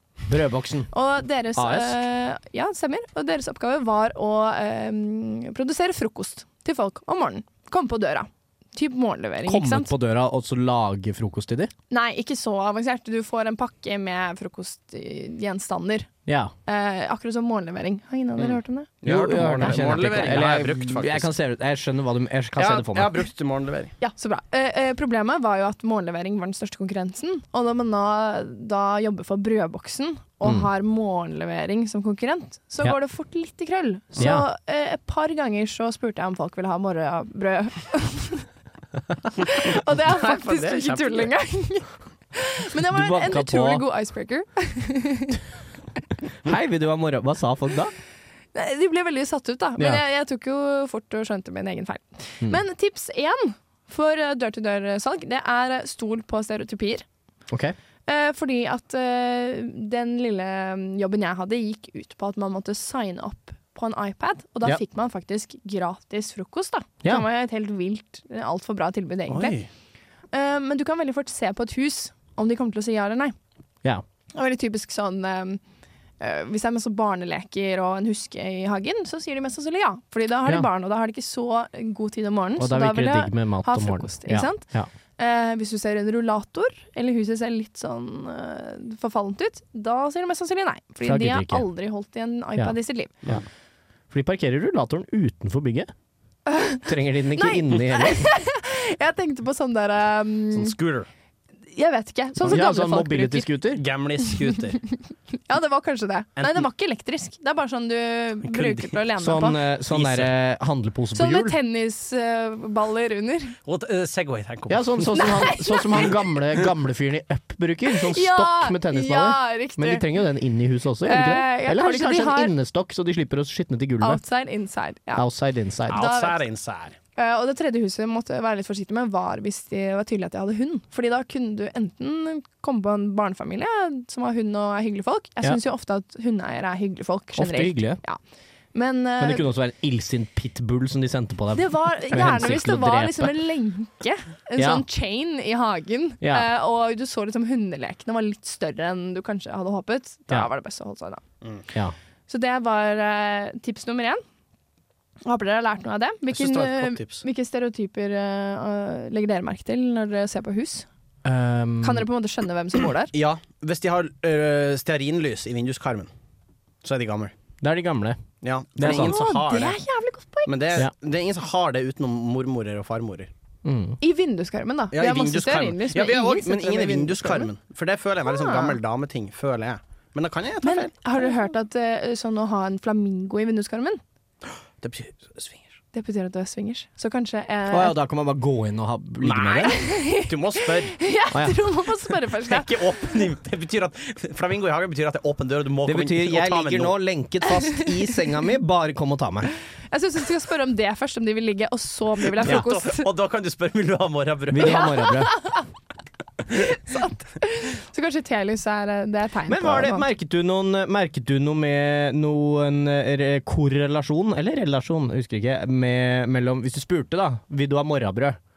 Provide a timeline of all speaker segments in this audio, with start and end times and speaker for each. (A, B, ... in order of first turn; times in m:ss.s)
0:00.3-0:00.9 A
0:00.9-0:09.9 B
0:01.5-0:02.0 A
0:09.4-0:11.7 A
0:11.9-0:16.1 B
0:16.3-0:16.5 A
0:16.6-0:20.2 B
0:18.4-0:21.3 C
0:19.0-0:23.2 A
0:22.6-0:23.9 C
0:24.0-0:38.5 B
0:30.4-0:30.7 A
0:34.2-0:34.5 A
0:39.4-0:45.4 B
0:40.0-0:41.3 C
0:42.8-0:43.8 A
0:46.4-0:47.9 A
0:48.5-0:57.0 B
0:49.8-0:50.0 A
0:57.5-0:57.7 A
0:58.1-1:09.6 B
1:09.3-1:09.7 C
1:10.3-1:13.3 B
1:14.3-1:15.6 B
1:16.2-1:24.7 B
1:22.6-1:24.9 A
1:25.2-1:33.3 B
1:31.0-1:31.7 A
1:32.6-1:33.4 A
1:34.1-1:35.9 A
1:36.5-1:40.7 B
1:36.8-1:38.3 A
1:40.5-1:41.1 C
1:41.7-1:43.5 B
1:42.4-1:43.8 A
1:43.7-1:44.8 C
1:45.3-1:49.6 B
1:46.4-1:46.6 C
1:48.4-1:49.0 C
1:49.2-1:51.6 A
1:49.9-1:50.3 C
1:51.1-1:53.6 B
1:53.6-1:55.3 C
1:54.7-2:04.2 A
1:55.2-1:56.0 B
1:58.1-2:00.0 B
2:01.0-2:02.5 B
2:04.0-2:05.2 B
2:05.1-2:06.1 A
2:05.9-2:06.4 B
2:05.9-2:07.0 C
2:07.2-2:18.2 B
2:17.3-2:18.0 A
2:18.7-2:19.4 B
2:19.2-2:23.5 A
2:21.5-2:31.2 B
2:24.6-2:24.8 A
2:26.2-2:26.5 A
2:32.3-2:34.2 B
2:35.2-2:40.9 B
2:36.3-2:37.2 C
2:41.2-2:42.1 A
2:41.8-2:43.1 B
2:43.1-2:46.1 C
2:46.8-2:47.3 C
2:47.6-2:48.2 A
2:48.4-2:49.8 C
2:48.8-2:49.2 A
2:48.8-2:50.8 B
2:50.4-2:53.3 C
2:53.6-2:54.0 A
2:54.0-2:57.5 B
2:54.9-3:00.9 C
2:58.2-2:58.8 B
3:00.6-3:04.0 B
3:04.8-3:05.7 C
3:05.9-3:07.9 B
3:07.7-3:09.7 A
3:09.2-3:10.9 C
3:09.6-3:12.7 B
3:11.3-3:11.6 A
3:12.4-3:16.9 C
3:15.8-3:19.5 A
3:17.5-3:17.9 B
3:19.9-3:23.1 B
3:22.4-3:24.9 C
3:24.5-3:25.4 A
3:25.3-3:25.6 B
3:26.9-3:30.0 B
3:29.5-3:38.4 A